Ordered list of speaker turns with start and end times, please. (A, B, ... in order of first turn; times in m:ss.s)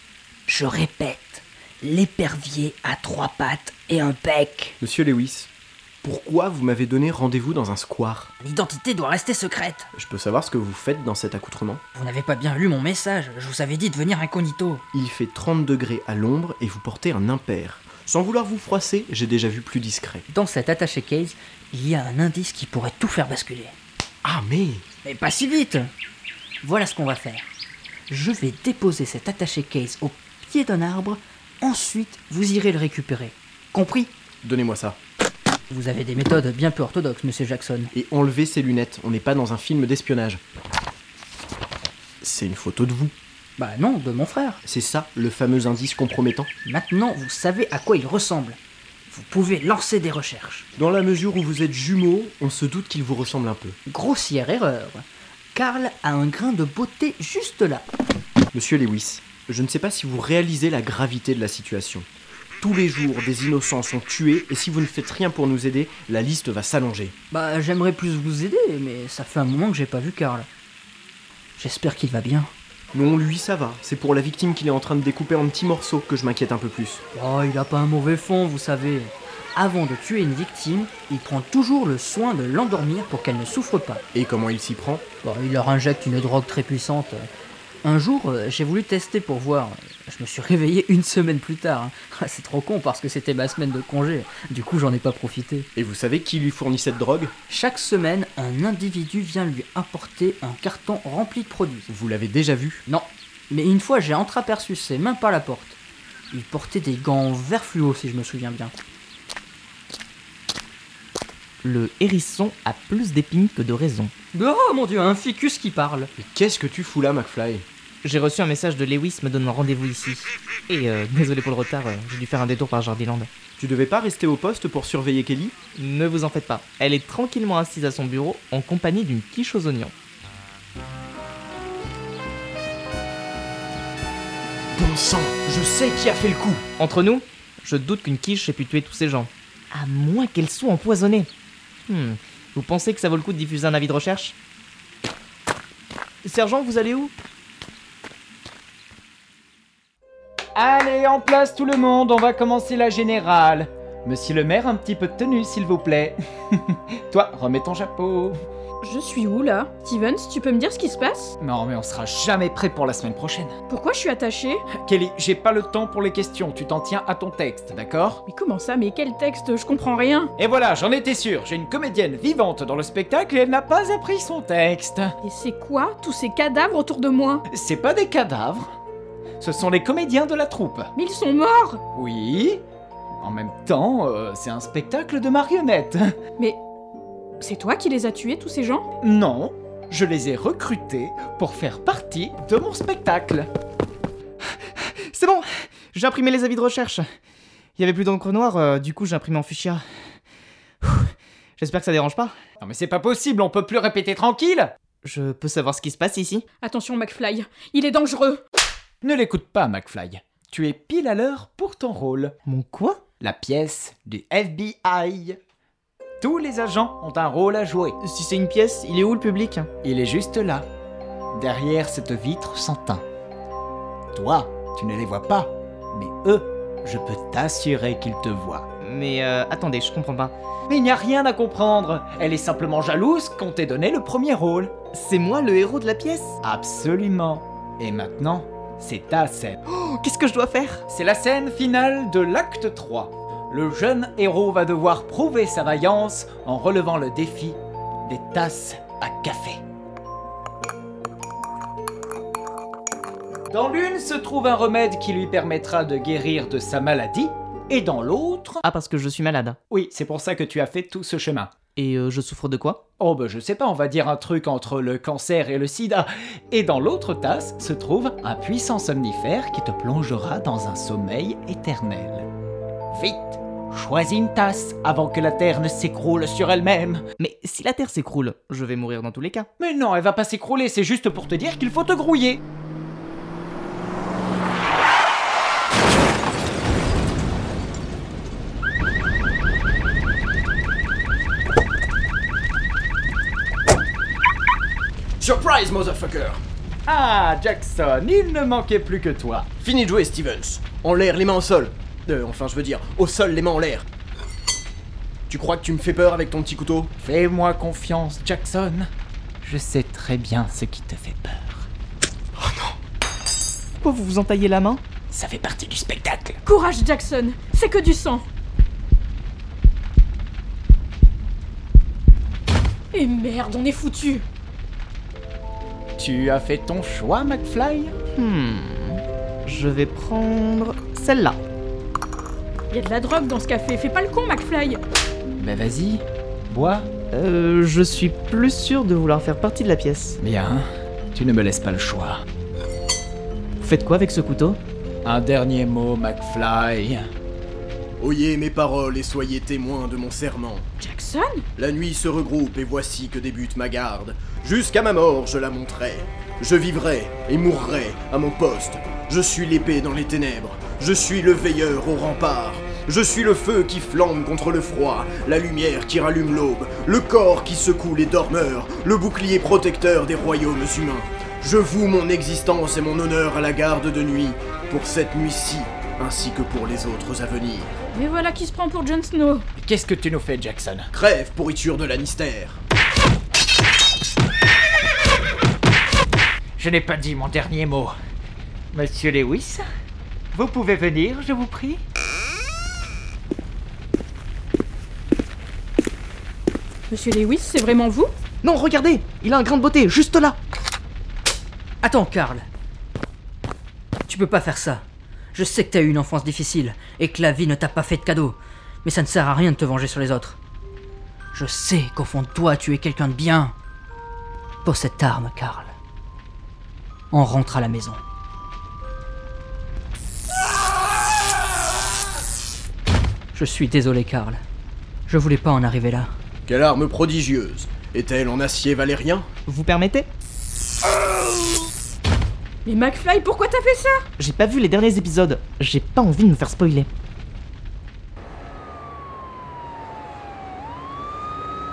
0:00.5-0:04.8 A
0:04.8-0:05.5 B
0:06.0-0:08.3 B
0:08.4-0:09.9 A
0:09.9-0:11.8 B
0:12.0-0:14.8 A
0:14.9-0:20.2 B
0:20.3-0:23.7 A
0:24.2-0:24.8 B
0:25.0-0:25.9 A
0:26.6-0:27.5 A
0:28.1-0:34.1 A
0:34.4-0:35.0 B
0:35.7-0:37.9 A
0:37.9-0:40.4 B
0:42.2-0:43.1 B
0:43.6-0:44.6 A
0:44.6-0:46.5 B
0:46.6-0:48.6 A
0:49.1-0:50.7 A
0:50.8-0:53.8 B
0:53.9-0:57.8 A
0:58.5-1:02.1 B
1:02.6-1:07.1 B
1:07.3-1:10.5 A
1:11.6-1:12.5 A
1:12.9-1:17.0 B
1:17.1-1:24.0 A
1:24.1-1:25.0 B
1:25.2-1:27.3 A
1:27.8-1:35.7 A
1:35.8-1:37.3 B
1:37.5-1:41.9 A
1:41.9-1:42.8 B
1:42.9-1:45.8 A
1:46.3-1:48.7 A
1:51.6-1:54.1 C
1:54.3-1:56.1 A
1:56.2-1:57.6 B
1:58.0-2:03.3 C
2:03.6-2:05.5 B
2:05.7-2:09.9 C
2:14.7-2:16.6 B
2:16.8-2:21.3 C
2:21.9-2:24.4 C
2:26.2-2:27.1 C
2:30.6-2:38.4 D
2:38.8-2:41.4 E
2:41.4-2:43.5 D
2:43.7-2:44.6 E
2:44.7-2:48.2 D
2:48.3-2:50.3 E
2:50.4-2:55.1 D
2:55.2-2:57.4 E
2:57.5-2:58.7 D
2:59.4-3:00.9 D
3:00.9-3:01.8 E
3:01.9-3:02.6 D
3:03.2-3:06.1 D
3:07.4-3:08.8 E
3:09.0-3:13.5 D
3:15.1-3:17.0 C
3:17.8-3:19.8 C
3:20.8-3:22.3 C
3:22.6-3:24.7 D
3:25.0-3:26.4 C
3:26.6-3:28.4 E
3:29.0-3:32.3 D
3:32.4-3:33.0 C
3:33.2-3:35.4 D
3:36.2-3:38.0 D
3:38.0-3:39.7 C
3:39.8-3:40.7 D
3:41.3-3:43.0 D
3:44.1-3:48.6 D
3:48.8-3:50.3 C
3:50.7-3:54.7 D
3:54.9-3:56.3 C
3:56.4-3:59.6 D
3:59.7-4:00.8 C
4:00.9-4:09.6 D
4:13.5-4:18.6 D
4:18.6-4:19.6 C
4:19.7-4:21.5 D
4:21.8-4:22.8 C
4:23.0-4:32.3 D
4:32.9-4:37.0 D
4:37.2-4:39.5 C
4:39.6-4:42.4 D
4:55.2-4:56.4 B
4:56.9-4:59.5 D
4:59.6-5:03.9 B
5:05.3-5:06.9 B
5:07.0-5:08.9 D
5:09.4-5:11.6 D
5:13.8-5:14.8 C
5:15.1-5:16.4 D
5:16.4-5:18.2 E
5:22.9-5:24.2 E
5:26.0-5:27.9 D
5:28.1-5:31.4 C
5:32.7-5:34.8 E
5:35.4-5:36.9 D
5:37.1-5:40.2 C
5:40.2-5:42.2 D
5:43.6-5:44.6 C
5:45.0-5:47.1 D
5:48.0-5:50.6 B
5:50.8-5:51.4 E
5:51.6-6:17.7 B
6:17.9-6:19.4 E
6:19.6-6:20.9 D
6:20.9-6:22.6 B
6:26.6-6:27.9 D
6:28.7-6:29.6 D
6:30.3-6:31.8 D
6:36.9-6:38.1 E
6:38.4-6:40.4 C
6:41.8-6:42.4 A
6:44.1-6:50.4 A
6:51.3-6:53.5 A
6:54.6-6:55.7 A
6:57.1-6:58.0 A
7:03.3-7:04.4 A
7:05.1-7:06.1 A
7:06.4-7:09.2 B
7:09.5-7:10.1 C
7:12.6-7:14.0 E
7:14.2-7:16.9 C